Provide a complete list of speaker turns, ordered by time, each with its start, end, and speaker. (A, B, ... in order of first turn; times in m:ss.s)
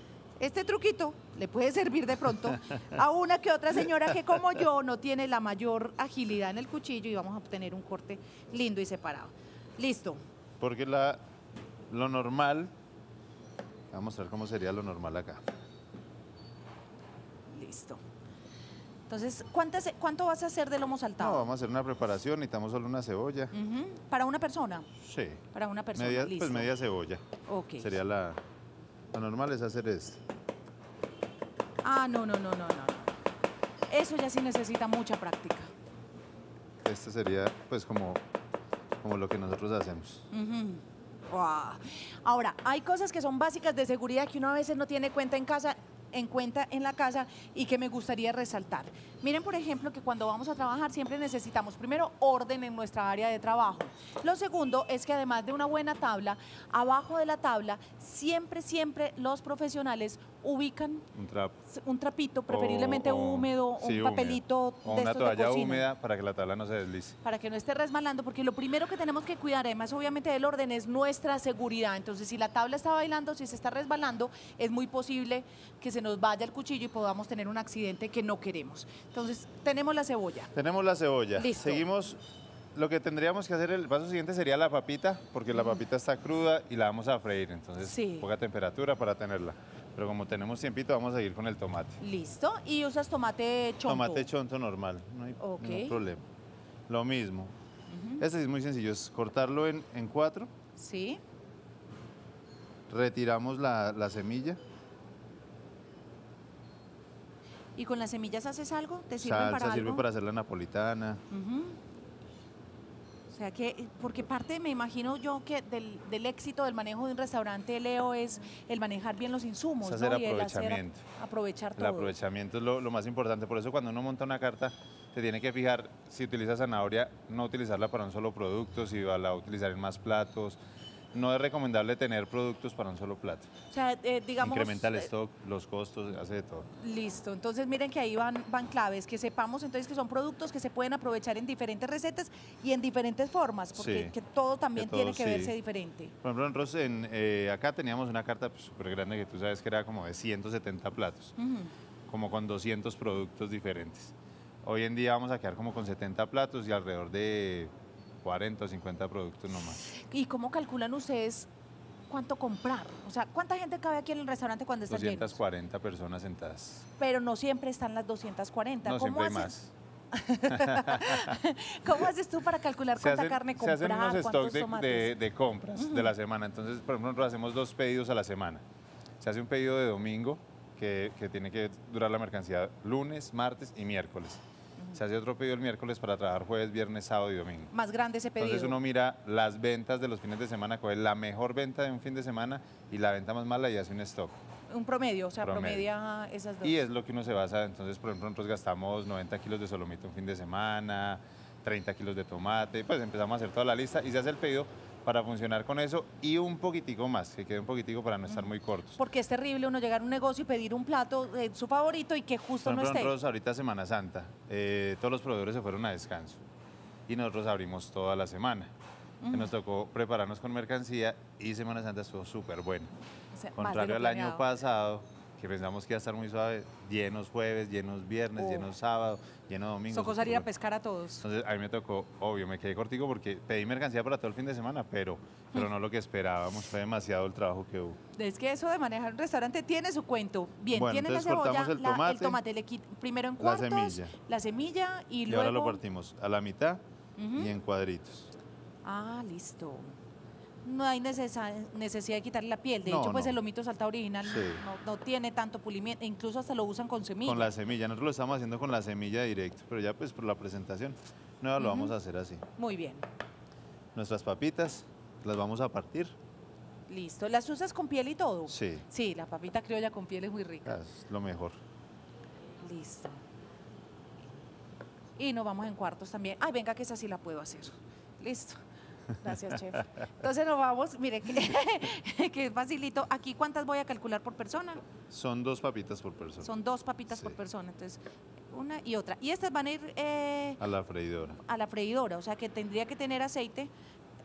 0:00.4-0:10.2 A
0:10.6-0:11.2 B
0:11.9-0:12.7 B
0:13.9-0:15.4 B
0:17.5-0:18.0 A
0:19.1-0:21.5 A
0:21.2-0:23.5 B
0:23.5-0:24.9 A
0:25.0-0:25.4 B
0:25.5-0:26.7 A
0:26.0-0:27.2 B
0:27.5-0:27.9 A
0:27.8-0:28.4 B
0:29.1-0:30.2 B
0:31.8-0:33.1 A
0:33.9-0:35.7 A
0:36.8-0:38.2 B
0:39.0-0:40.3 B
0:40.3-1:01.0 A
1:01.1-1:01.6 B
1:01.7-1:05.9 A
1:02.5-1:07.2 B
1:07.2-1:20.5 A
1:20.5-1:22.2 B
1:21.4-1:21.9 A
1:22.7-1:32.0 B
1:25.5-1:25.8 A
1:27.8-1:28.3 A
1:32.0-1:34.3 A
1:33.8-1:36.3 B
1:35.4-1:36.0 A
1:36.9-1:37.6 B
1:37.9-1:38.2 A
1:38.2-1:40.5 B
1:40.8-1:41.2 A
1:42.9-1:44.6 B
1:47.8-1:50.0 A
1:49.2-1:51.2 B
1:51.3-1:51.8 A
1:53.3-2:02.2 A
1:59.8-2:01.0 B
2:01.8-2:10.6 B
2:11.1-2:13.5 B
2:13.7-2:15.1 A
2:14.4-2:16.7 B
2:16.8-2:26.1 A
2:23.8-2:24.2 B
2:24.8-2:25.6 B
2:26.2-2:31.4 B
2:31.4-2:31.7 A
2:32.1-2:37.7 B
2:38.2-2:39.8 B
2:39.9-2:41.5 A
2:42.1-2:45.4 A
2:44.9-2:46.9 B
2:47.0-2:49.5 A
2:48.8-2:49.7 B
2:50.1-2:55.1 A
2:50.5-2:51.4 B
2:53.0-2:58.6 B
2:55.8-2:56.1 A
2:59.2-3:04.4 B
3:04.9-3:07.7 B
3:07.7-3:08.8 A
3:08.4-3:14.4 B
3:14.7-3:16.8 A
3:15.4-3:15.9 B
3:16.6-3:29.0 B
3:28.3-3:33.2 A
3:32.6-3:36.4 B
3:37.1-3:38.7 B
3:39.2-3:39.5 A
3:39.3-3:42.9 B
3:43.3-3:44.5 A
3:43.6-3:50.5 B
3:48.4-3:48.7 A
3:49.9-3:51.3 A
3:51.2-3:58.0 B
3:58.2-4:05.8 A
4:00.7-4:02.4 B
4:03.4-4:04.1 B
4:05.3-4:06.8 B
4:07.2-4:07.5 A
4:07.4-4:08.3 B
4:08.8-4:09.9 A
4:10.6-4:17.5 A
4:12.8-4:13.4 B
4:14.2-4:14.6 B
4:17.2-4:22.4 B
4:21.6-4:22.0 A
4:22.6-4:23.1 A
4:24.0-4:26.2 B
4:26.9-4:30.8 A
4:28.5-4:28.8 B
4:30.6-4:31.6 B
4:32.6-4:33.2 A
4:35.2-4:38.6 A
4:39.2-4:44.8 A
4:45.1-4:46.5 B
4:46.4-4:50.6 A
4:47.1-4:47.4 B
4:50.6-4:51.4 B
4:51.4-4:53.7 A